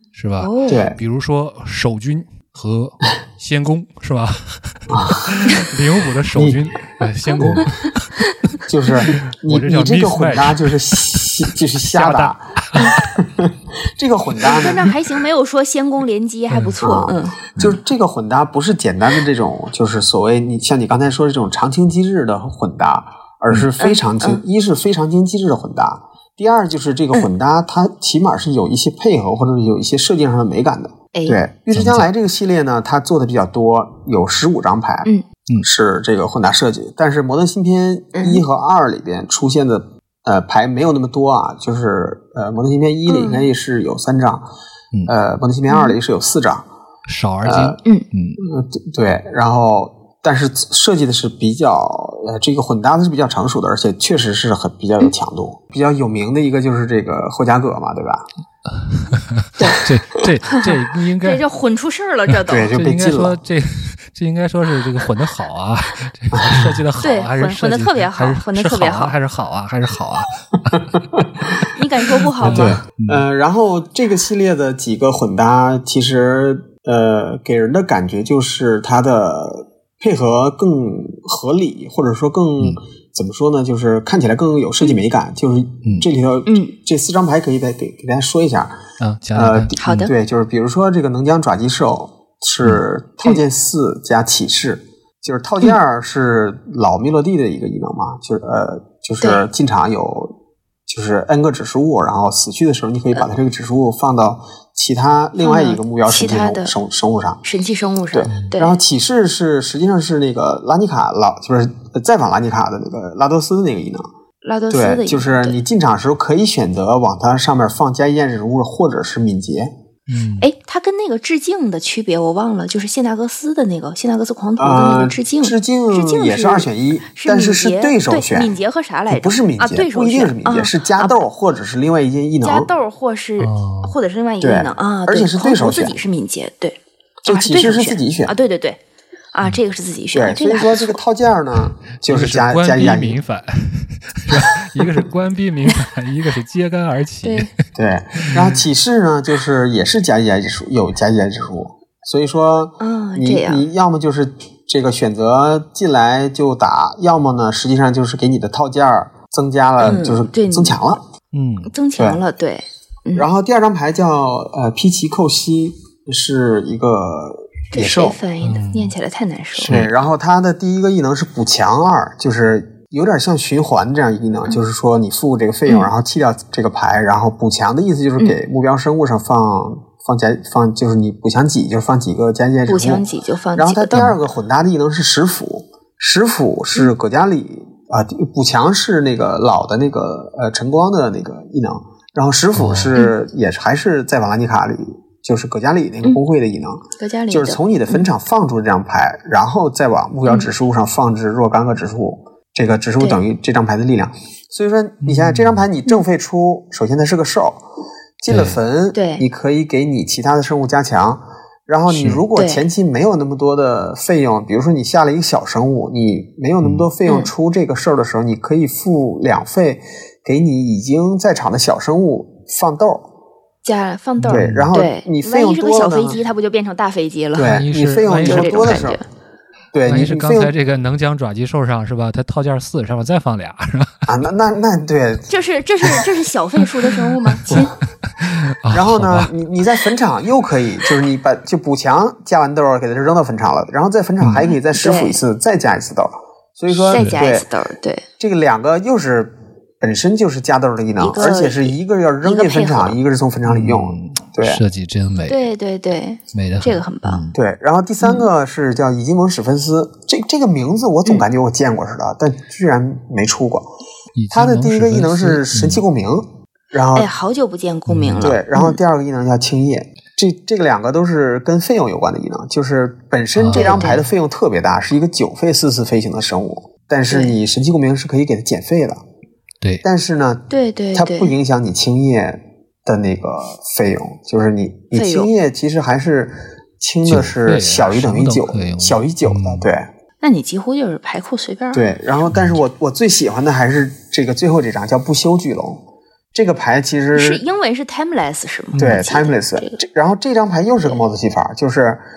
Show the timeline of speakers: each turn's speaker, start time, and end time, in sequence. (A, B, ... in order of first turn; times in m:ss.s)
0:00.1-0:08.5 A
0:00.4-0:00.9 B
0:00.7-0:01.0 C
0:04.9-0:05.4 C
0:06.3-0:06.6 C
0:07.4-0:07.6 B
0:08.7-0:14.9 C
0:09.0-0:11.2 A
0:11.9-0:13.0 A
0:14.4-0:17.4 B
0:16.5-0:16.8 A
0:16.8-0:44.5 C
0:23.8-0:24.4 B
0:31.7-0:32.1 A
0:38.2-0:38.4 B
0:43.1-0:43.5 B
0:45.1-0:46.7 C
0:45.7-0:46.0 B
0:47.1-0:48.4 A
0:47.4-0:47.8 C
0:48.4-0:58.3 C
0:59.1-1:01.4 A
1:00.5-1:02.7 B
1:02.5-1:03.4 C
1:02.6-1:10.8 A
1:06.3-1:06.7 C
1:07.0-1:09.2 B
1:10.9-1:11.2 C
1:11.7-1:12.8 B
1:12.4-1:13.2 A
1:12.4-1:28.7 C
1:26.5-1:26.7 B
1:29.0-1:30.1 A
1:29.4-1:40.3 C
1:29.8-1:30.1 B
1:40.9-1:47.4 C
1:45.4-1:46.7 B
1:47.4-1:48.8 B
1:48.1-1:54.1 C
1:48.3-1:48.5 A
1:54.4-1:55.6 B
1:54.7-1:59.7 C
2:00.1-2:00.5 A
2:00.4-2:11.2 B
2:04.6-2:08.5 C
2:09.1-2:12.7 C
2:12.4-2:18.8 B
2:13.4-2:14.0 A
2:14.4-2:16.0 C
2:17.2-2:18.3 C
2:19.3-2:21.0 B
2:20.1-2:23.2 C
2:22.1-2:27.6 A
2:27.2-2:27.5 B
2:27.8-2:41.0 C
2:28.2-2:28.6 A
2:32.8-2:33.7 B
2:39.8-2:40.8 B
2:41.3-2:41.7 A
2:41.7-2:43.3 B
2:42.0-2:42.2 C
2:43.2-2:48.2 C
2:47.7-2:49.8 B
2:48.4-2:49.0 A
2:49.6-3:03.0 C
2:49.6-2:49.9 A
3:02.7-3:04.1 B
3:03.6-3:27.6 C
3:12.6-3:12.9 A
3:17.0-3:18.0 B
3:25.0-3:25.7 A
3:28.2-3:43.1 C
3:28.3-3:28.6 A
3:28.9-3:29.2 B
3:31.9-3:32.2 A
3:32.4-3:32.6 B
3:37.1-3:37.3 B
3:43.6-3:47.6 B
3:44.2-3:44.7 A
3:44.3-3:46.2 C
3:47.4-3:49.0 C
3:47.4-3:48.8 A
3:48.2-3:49.0 B
3:49.7-3:50.5 C
3:49.9-3:54.0 A
3:54.1-3:55.3 C
3:55.3-3:57.7 B
3:56.6-3:59.3 A
3:58.7-4:07.5 C
4:04.5-4:05.2 B
4:06.7-4:07.2 A
4:06.9-4:08.0 B
4:08.2-4:14.6 C
4:11.0-4:13.0 B
4:13.5-4:15.5 A
4:15.3-4:17.2 B
4:16.3-4:17.4 A
4:17.3-4:23.7 C
4:18.0-4:18.3 B
4:24.2-4:25.8 A
4:24.3-4:27.1 C
4:27.0-4:28.8 B
4:27.9-4:28.4 A
4:28.2-4:39.0 C
4:33.4-4:34.0 A
4:33.5-4:34.0 B
4:37.1-4:37.4 B
4:39.8-4:49.9 C
4:40.5-4:41.3 B
4:44.9-4:45.3 B
4:47.0-4:49.7 A
4:50.2-4:51.8 B
4:51.7-4:55.8 C
4:52.3-4:52.6 A
4:56.3-4:57.4 C
4:57.2-4:59.8 B
4:58.7-4:59.0 A
4:58.8-5:02.0 C